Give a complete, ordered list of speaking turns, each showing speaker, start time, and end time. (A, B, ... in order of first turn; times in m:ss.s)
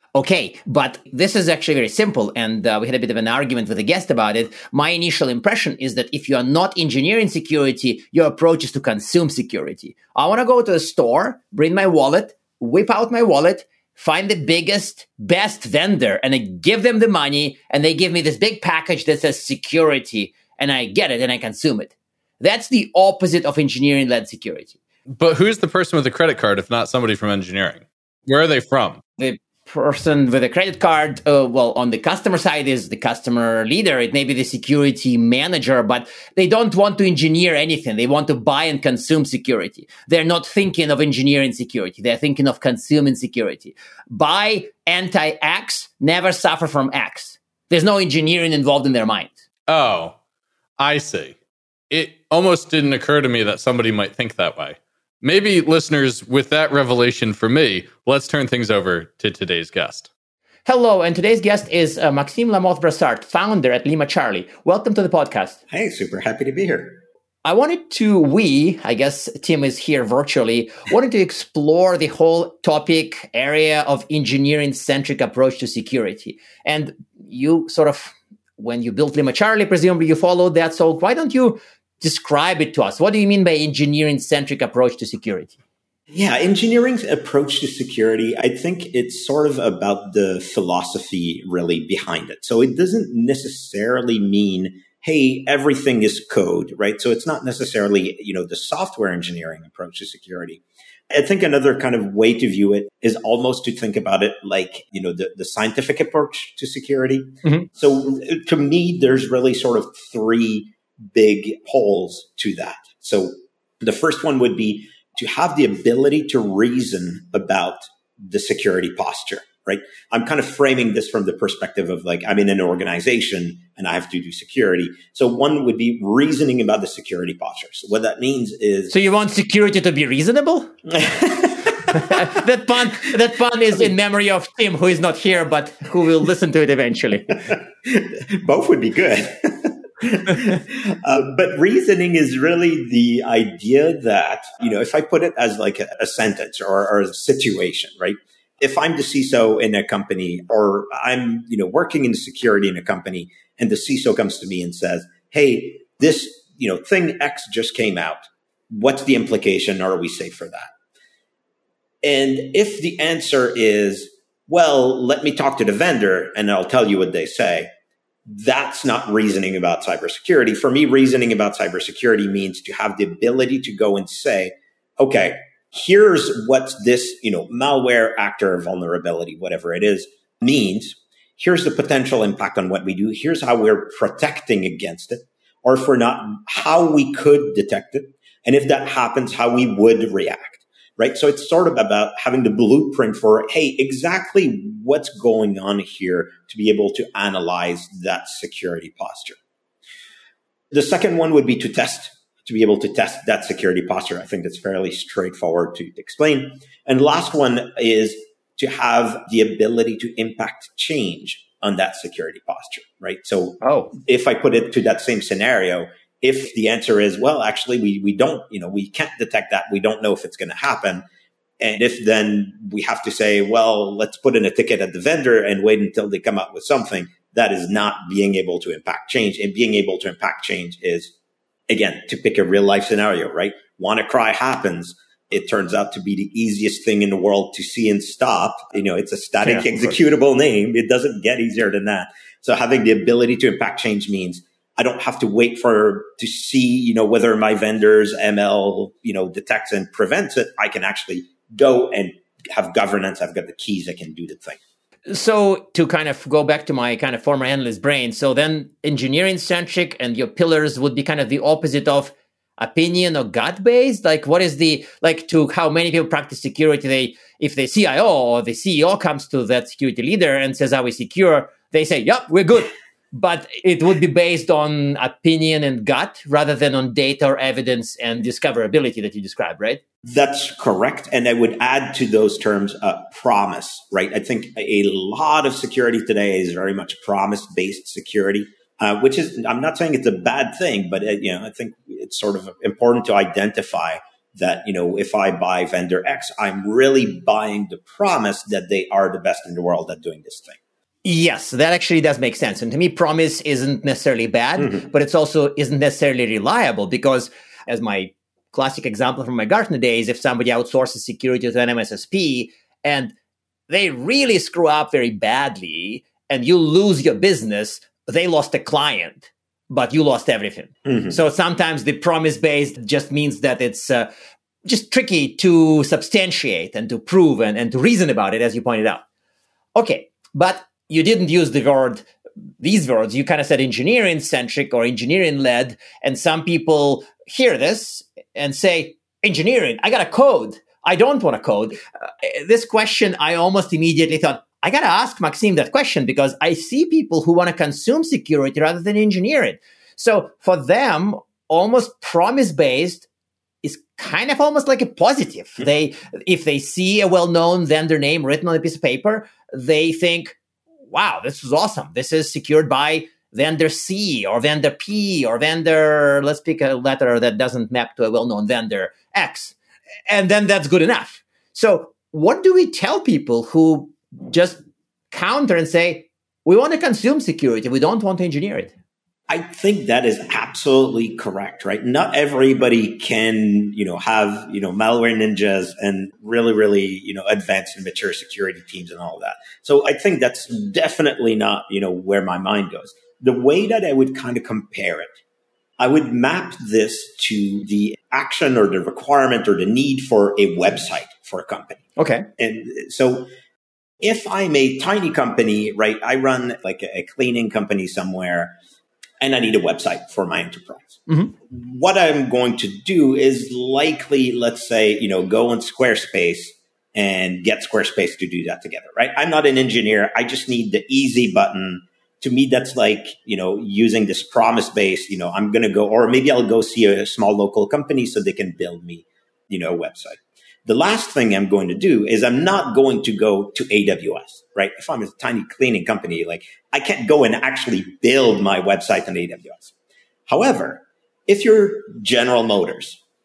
0:00.2-0:24.8 A
0:25.2-0:29.0 B
0:29.2-0:49.4 A
0:49.7-0:50.2 B
0:50.8-0:51.4 B
0:51.9-1:00.1 B
1:00.7-1:05.6 A
1:05.7-1:07.0 C
1:07.4-1:25.6 A
1:26.1-2:08.9 C
2:08.9-2:10.7 A
2:10.9-2:12.3 C
2:11.8-2:17.5 A
2:17.5-2:40.7 C
2:42.0-2:47.7 C
2:48.3-3:19.4 C
3:20.7-3:41.0 C
3:33.6-3:33.9 A
3:41.6-3:51.1 C
3:51.7-4:14.6 C
3:59.4-3:59.9 A
4:15.1-4:39.8 A
4:40.0-5:00.6 C
5:01.0-5:13.1 A
5:13.7-5:24.1 A
5:20.9-5:21.2 C
5:24.6-5:29.0 A
5:29.8-5:32.1 A
5:32.6-5:53.1 A
5:53.6-6:00.4 A
6:00.9-6:09.6 A
6:10.1-6:18.7 A
6:19.3-6:35.2 C
6:35.8-6:41.8 C
6:42.0-6:42.3 A
6:42.4-6:43.3 C
6:44.0-6:48.5 C
6:49.2-7:19.7 C
6:51.1-6:51.3 A
7:20.3-7:23.0 C